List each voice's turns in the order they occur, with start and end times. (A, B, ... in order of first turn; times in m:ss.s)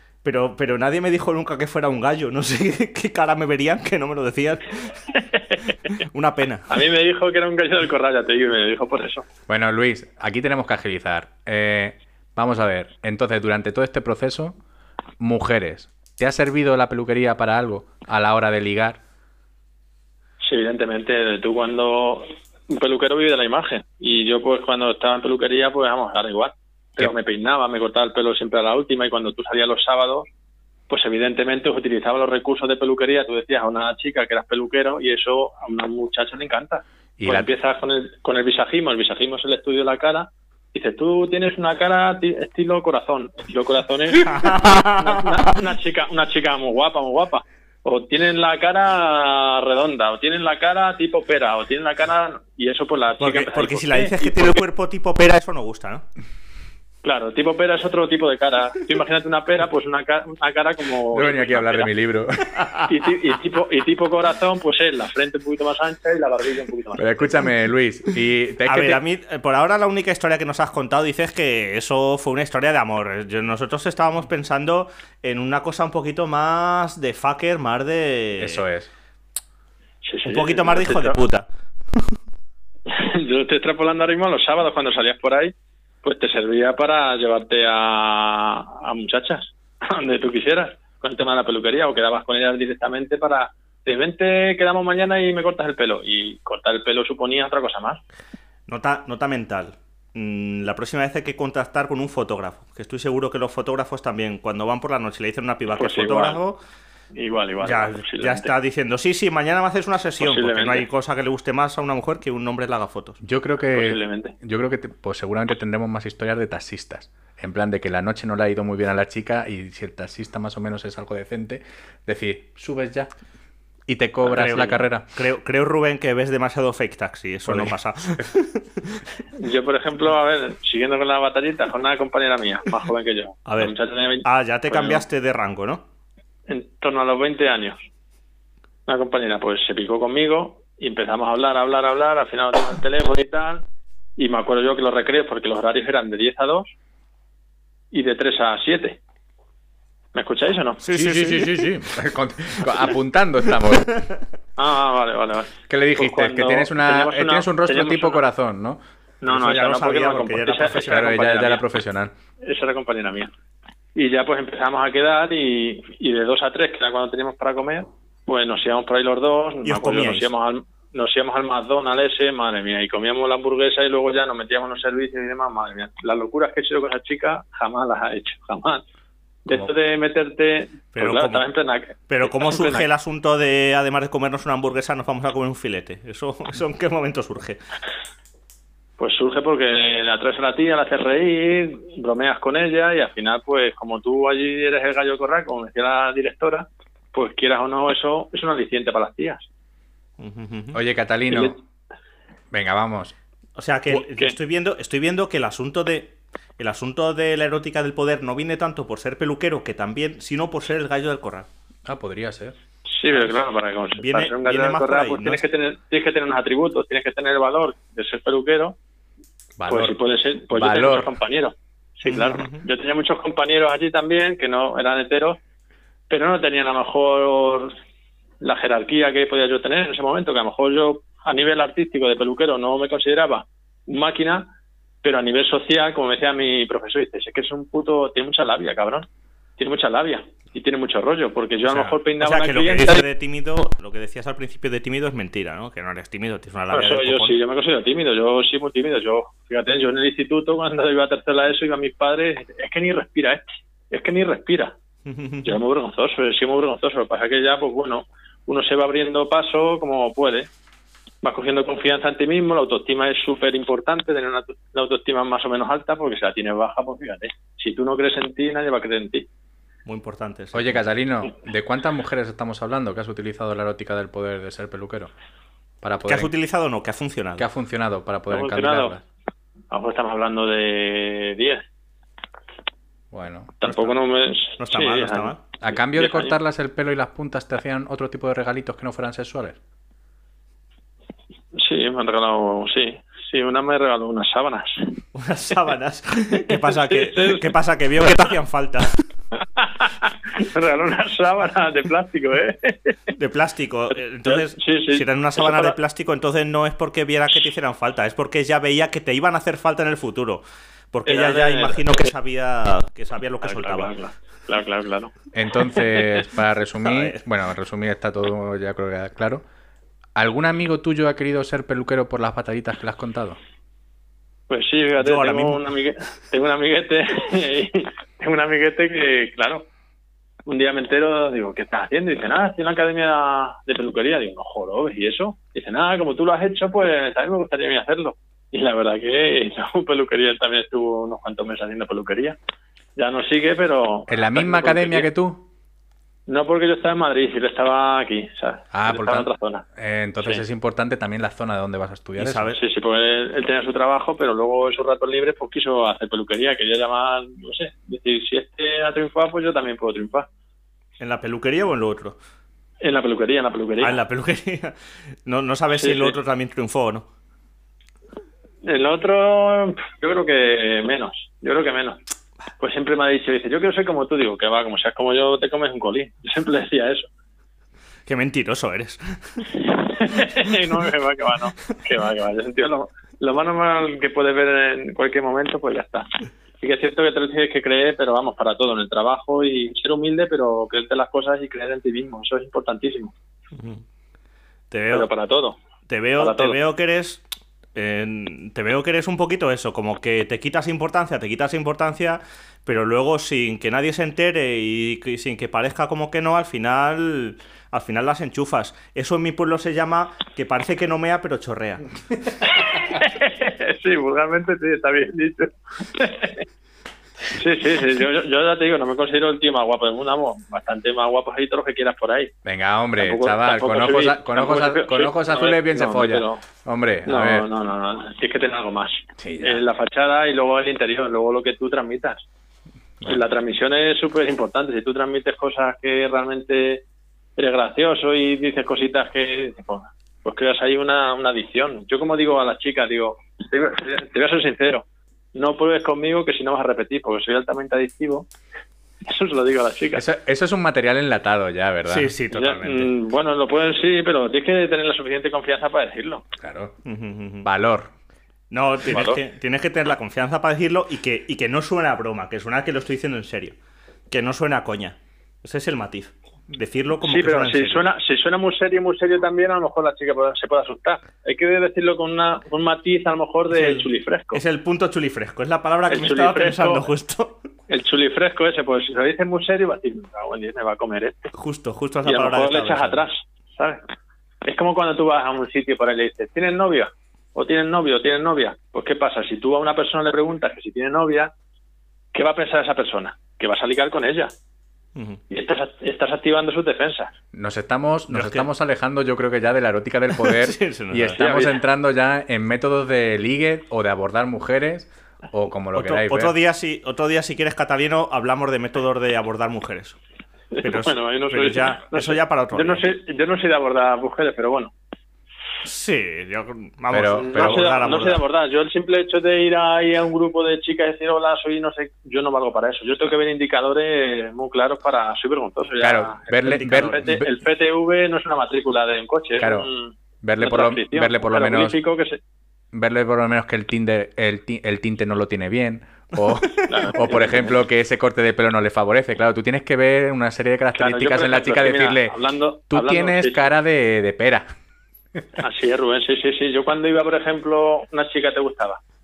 0:00.2-0:04.7 A
0:06.0-0:06.8 A
0:06.7-0:09.2 B
0:09.5-0:14.6 C
0:15.2-0:19.0 C
0:20.4-0:30.3 B
0:30.9-0:54.6 B
0:37.2-0:37.5 C
0:44.2-0:45.6 A
0:53.2-0:56.0 A
0:57.0-1:01.9 B
1:01.1-1:02.6 C
1:02.9-1:07.2 B
1:07.0-1:09.0 C
1:08.6-1:18.6 A
1:18.4-1:18.9 C
1:20.0-1:21.2 B
1:20.2-1:21.5 A
1:22.9-1:38.0 B
1:38.7-1:46.6 A
1:45.8-1:46.4 B
1:47.1-1:48.5 B
1:47.6-1:53.2 A
1:50.2-1:50.9 B
1:53.2-2:03.1 C
1:53.7-1:54.3 B
2:03.9-2:05.0 C
2:04.2-2:09.0 A
2:07.5-2:07.7 C
2:09.4-2:15.0 B
2:13.5-2:15.8 A
2:16.5-2:17.8 B
2:18.9-2:23.6 B
2:24.2-2:26.7 B
2:27.9-2:29.0 B
2:30.1-2:30.8 B
2:30.8-2:31.6 A
2:30.9-2:34.0 C
2:34.6-2:38.2 B
2:35.7-2:38.8 C
2:39.2-2:41.6 B
2:39.3-2:41.1 A
2:40.8-2:42.1 C
2:42.4-2:43.3 B
2:44.0-2:58.8 B
2:49.6-2:50.3 A
2:59.4-3:02.8 B
3:00.9-3:01.4 A
3:02.1-3:07.6 A
3:09.0-3:19.4 B
3:20.2-3:20.8 A
3:20.7-3:21.6 C
3:21.3-3:21.6 B
3:22.5-3:23.1 C
3:23.6-3:31.5 A
3:23.9-3:24.3 B
3:31.8-3:32.6 C
3:32.9-3:38.8 B
3:33.1-3:33.4 A
3:33.9-3:35.4 A
3:39.6-3:41.1 C
3:39.7-3:45.4 B
3:42.0-3:42.6 A
3:46.1-3:47.7 B
3:48.4-3:54.5 B
3:55.0-3:59.0 B
3:59.6-4:03.0 B
4:01.6-4:07.4 A
4:06.7-4:14.7 B
4:15.0-4:15.5 A
4:15.4-4:20.5 B
4:21.2-4:29.2 B
4:29.8-4:30.8 A
4:30.5-4:35.1 C
4:35.8-4:36.3 C
4:36.0-4:37.5 A
4:37.4-4:39.0 C
4:38.3-4:39.0 B
4:39.7-4:41.6 B
4:43.1-4:43.5 C
4:43.6-4:46.4 B
4:43.6-4:44.0 A
4:44.6-4:45.4 A
4:45.6-4:49.6 C
4:51.5-4:55.0 B
4:55.1-4:59.0 A
4:56.8-4:57.5 B
4:59.6-5:03.0 B
5:03.1-5:10.4 A
5:04.2-5:05.7 B
5:10.9-5:13.9 A
5:11.1-5:12.0 B
5:13.4-5:15.1 B
5:15.3-5:19.4 C
5:15.8-5:16.2 B
5:16.8-5:17.2 A
5:20.2-5:23.4 C
5:24.5-5:29.6 B
5:25.0-5:25.6 A
5:30.4-5:42.4 B
5:43.0-5:45.1 B
5:44.1-5:45.4 C
5:46.3-5:49.6 B
5:48.7-5:52.5 C
5:52.2-5:52.6 A
5:52.5-6:00.3 B
6:01.0-6:02.2 A
6:02.8-6:04.0 B
6:03.8-6:04.7 A
6:05.2-6:07.0 A
6:05.7-6:06.2 B
6:08.6-6:12.0 B
6:12.6-6:17.1 B
6:18.1-6:19.5 A
6:19.6-6:26.1 B
6:26.6-6:33.1 B
6:33.5-6:33.8 A
6:34.7-6:35.1 A
6:34.9-6:35.6 B
6:35.9-6:37.2 A
6:36.2-6:36.6 B
6:37.8-6:51.8 A
6:52.4-6:56.4 B
6:57.3-7:02.3 B
7:02.4-7:07.5 C
7:03.0-7:06.4 B
7:07.0-7:12.2 B
7:09.2-7:09.6 C
7:13.0-7:16.8 B
7:17.4-7:28.2 B
7:29.0-7:30.0 B
7:29.9-7:32.1 C
7:31.9-7:32.9 A
7:32.3-7:36.2 B
7:36.4-7:36.7 C
7:36.8-7:37.5 A
7:37.4-7:37.9 C
7:38.5-7:43.5 A
7:38.9-7:39.2 B
7:44.1-7:47.9 A
7:47.0-7:54.4 B
7:53.5-7:57.4 A
7:55.9-7:56.9 B
7:57.7-8:01.3 B
8:01.3-8:03.0 A
8:02.0-8:03.8 B
8:04.4-8:11.3 B
8:12.1-8:14.3 B
8:15.0-8:15.2 A
8:15.3-8:17.1 B
8:17.3-8:26.4 C
8:18.1-8:18.5 A
8:20.2-8:21.2 A
8:21.2-8:21.6 B
8:25.7-8:30.0 A
8:30.5-8:34.7 B
8:30.6-8:32.9 A
8:35.6-8:38.2 A
8:36.9-8:37.6 C
8:37.2-8:52.2 B
8:45.8-8:47.3 C
8:46.4-8:47.2 A
8:49.4-8:49.7 C
8:50.2-8:51.8 C
8:52.7-9:02.2 C
8:56.2-8:56.9 A
8:56.7-8:57.5 B
9:00.7-9:03.5 B
9:02.7-9:04.5 C
9:05.4-9:08.8 B